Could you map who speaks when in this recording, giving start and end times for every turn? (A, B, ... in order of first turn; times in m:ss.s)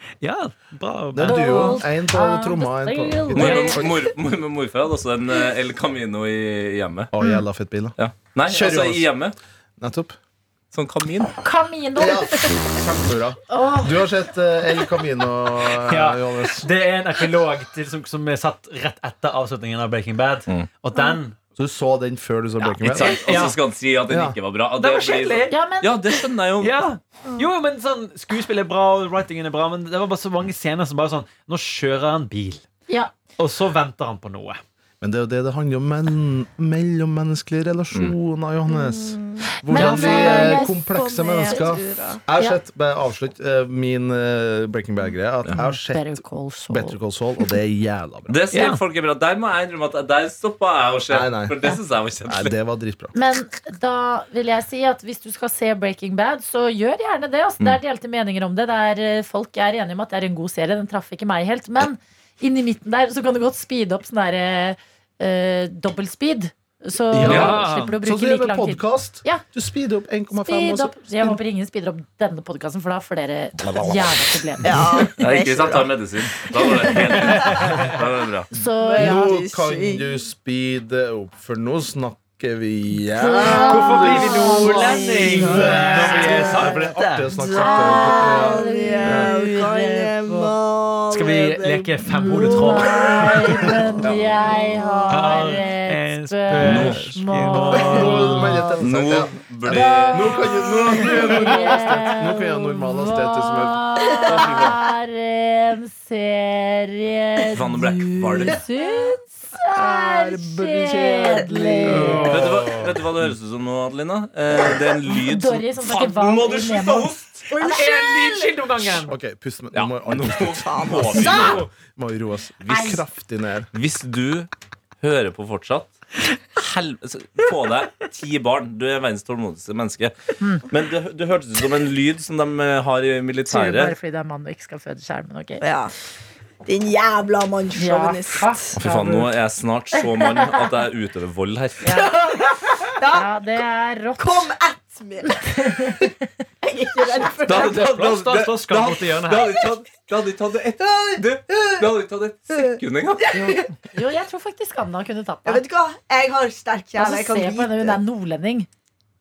0:00.2-0:01.7 A
0:01.1-0:04.0 B
0:01.2-0:03.8 C
0:03.3-0:07.1 D
0:07.1-0:09.1 B
0:08.0-0:09.4 D
0:09.8-0:10.2 B
0:10.7-0:11.4 D
0:11.4-0:12.6 C
0:12.0-0:16.7 B
0:13.5-0:14.1 C
0:15.8-0:21.4 A
0:21.6-0:23.5 B
0:22.8-0:26.8 D
0:22.9-0:23.6 A
0:24.1-0:24.4 B
0:24.8-0:25.6 A
0:25.5-0:26.0 C
0:26.6-0:32.6 A
0:32.9-0:33.1 C
0:33.4-0:34.6 A
0:35.0-0:48.4 B
0:38.7-0:42.2 E
0:39.7-0:40.8 C
0:39.8-0:40.1 A
0:41.4-0:41.7 C
0:45.6-0:47.0 C
0:48.3-0:52.5 D
0:48.5-0:48.8 A
0:51.1-0:51.7 B
0:52.3-0:53.2 B
0:53.2-1:09.4 C
1:07.1-1:08.0 A
1:07.2-1:11.4 B
1:07.2-1:07.6 D
1:10.3-1:15.1 C
1:13.6-1:13.9 D
1:13.7-1:14.0 B
1:14.6-1:17.8 E
1:15.2-1:18.5 D
1:17.3-1:18.0 A
1:18.5-1:19.3 C
1:18.8-1:20.1 E
1:19.0-1:29.3 B
1:23.2-1:26.6 C
1:23.3-1:26.7 E
1:23.6-1:27.3 A
1:27.3-1:35.5 E
1:27.4-1:30.5 C
1:31.1-1:33.8 A
1:32.0-1:38.8 C
1:34.0-1:34.3 D
1:35.1-1:38.6 A
1:36.6-1:37.1 D
1:36.7-1:37.2 B
1:37.7-1:43.8 B
1:38.8-1:41.7 D
1:39.7-1:52.3 C
1:44.1-1:44.7 E
1:44.3-1:44.8 D
1:47.5-1:48.6 D
1:49.7-1:52.9 B
1:51.9-1:52.7 A
1:52.3-1:57.5 D
1:55.1-1:57.2 C
1:57.5-1:58.7 E
1:57.6-1:59.2 A
1:59.0-2:03.7 B
1:59.7-2:01.7 D
2:00.6-2:01.7 E
2:02.7-2:03.0 C
2:02.7-2:03.0 D
2:03.7-2:04.5 D
2:05.0-2:06.0 D
2:06.6-2:10.2 D
2:10.4-2:10.6 C
2:10.7-2:14.0 D
2:13.5-2:15.6 C
2:15.6-2:15.9 E
2:16.6-2:18.8 E
2:17.8-2:19.3 C
2:18.8-2:22.0 D
2:19.9-2:20.6 C
2:21.8-2:22.2 C
2:21.9-2:23.3 E
2:23.1-2:24.5 C
2:24.2-2:26.0 E
2:25.4-2:26.2 C
2:26.6-2:27.8 E
2:27.5-2:33.3 D
2:27.5-2:29.5 A
2:30.8-2:31.8 E
2:32.5-2:33.8 E
2:33.3-2:35.6 C
2:35.5-2:38.0 E
2:37.0-2:38.7 C